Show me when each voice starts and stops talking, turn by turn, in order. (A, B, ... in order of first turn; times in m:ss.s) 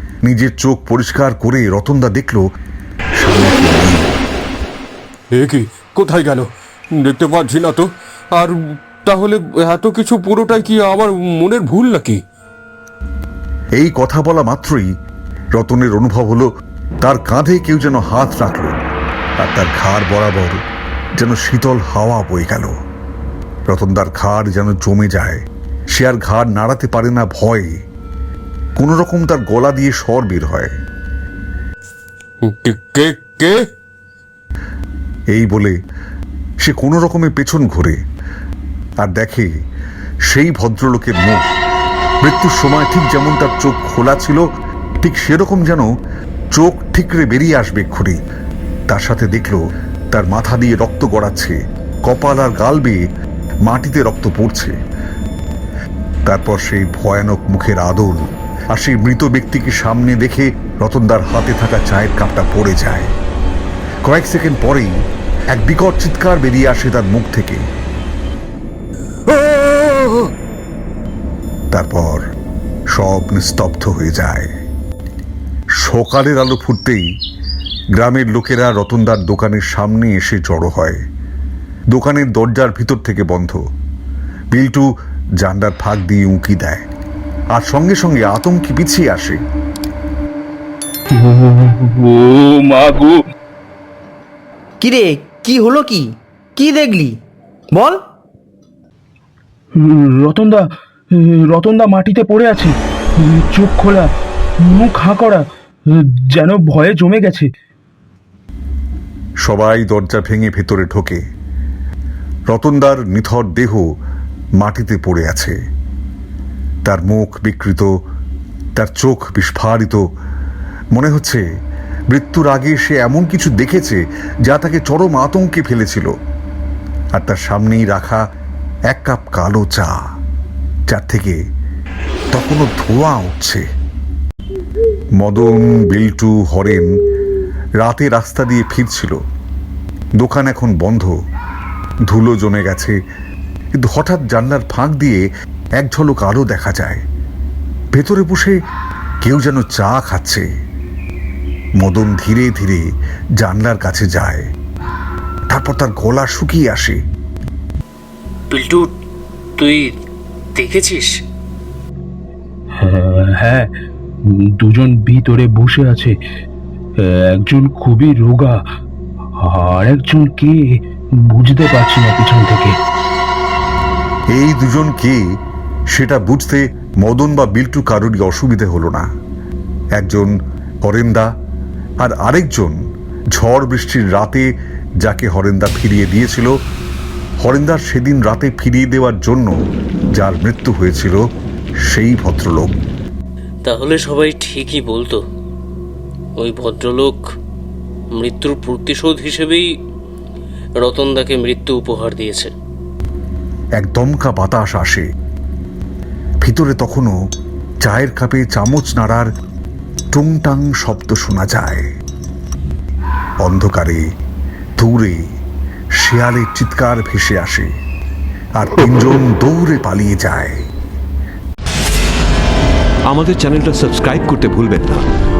0:00.2-0:02.4 A
0:03.2-0:04.1 A
0:05.3-0:06.5 B
0:07.0-0:12.2 B
0:13.8-0:14.9 A
0:15.5-0:16.5 A
0:17.0-0:18.7 A
0:19.4-0:20.6 A
0:21.2-0:22.7 A
0:23.7-0:27.7 A
0:28.8-0:30.7 A
0:32.4-0:33.5 B
0:35.3-0:35.8 A
0:36.6-0:38.0 A
0:39.0-0:39.5 A
0:40.3-0:41.4 A
0:42.2-0:44.4 A
0:45.0-0:45.9 A
0:46.5-0:48.2 A
0:48.9-0:49.6 A
0:50.1-0:53.0 A
0:53.6-0:54.7 A
0:56.2-0:58.2 A
0:58.7-1:03.1 A
1:04.0-1:04.9 A
1:05.5-1:07.6 A
1:09.3-1:10.3 B
1:11.7-1:12.2 A
1:12.9-1:14.5 A
1:15.8-1:17.0 A
1:18.0-1:21.0 A
1:21.9-1:23.6 A
1:24.5-1:24.9 A
1:25.4-1:26.8 A
1:27.5-1:29.4 A
1:31.1-1:33.2 C
1:34.8-1:37.2 D
1:37.7-1:38.0 D
1:39.8-1:40.6 C
1:41.1-1:44.1 C
1:44.6-1:45.4 C
1:46.3-1:47.5 C
1:49.4-1:51.2 A
1:52.5-1:53.9 A
1:54.6-1:55.6 A
1:56.8-1:57.9 A
1:58.8-2:00.0 A
2:00.9-2:01.4 A
2:02.1-2:06.1 A
2:07.2-2:08.2 A
2:08.9-2:10.0 A
2:10.9-2:11.4 A
2:12.3-2:13.6 A
2:15.2-2:16.9 A
2:17.8-2:19.2 A
2:20.2-2:21.1 A
2:22.1-2:23.0 A
2:23.7-2:25.2 A
2:25.8-2:27.0 A
2:27.9-2:28.5 A
2:29.2-2:30.5 A
2:31.8-2:32.9 A
2:33.4-2:34.5 A
2:35.5-2:37.0 A
2:38.5-2:38.9 E
2:39.6-2:39.9 E
2:40.6-2:41.1 E
2:42.8-2:43.7 C
2:44.6-2:46.1 C
2:47.3-2:48.6 C
2:49.4-2:50.6 C
2:51.3-2:52.7 C
2:54.3-2:55.2 A
2:55.9-2:59.1 A
3:00.0-3:01.3 A
3:02.0-3:02.8 A
3:03.3-3:04.5 A
3:05.0-3:06.5 A
3:07.4-3:09.5 A
3:10.2-3:11.2 A
3:11.9-3:12.8 A
3:13.6-3:15.2 E
3:16.4-3:17.2 E
3:18.1-3:19.7 E
3:20.8-3:22.5 E
3:23.8-3:25.0 A
3:26.4-3:27.1 A
3:27.8-3:29.3 A
3:30.1-3:31.9 A
3:33.4-3:34.0 A
3:34.8-3:35.2 A
3:36.0-3:37.7 A
3:38.6-3:40.6 A
3:43.1-3:45.0 F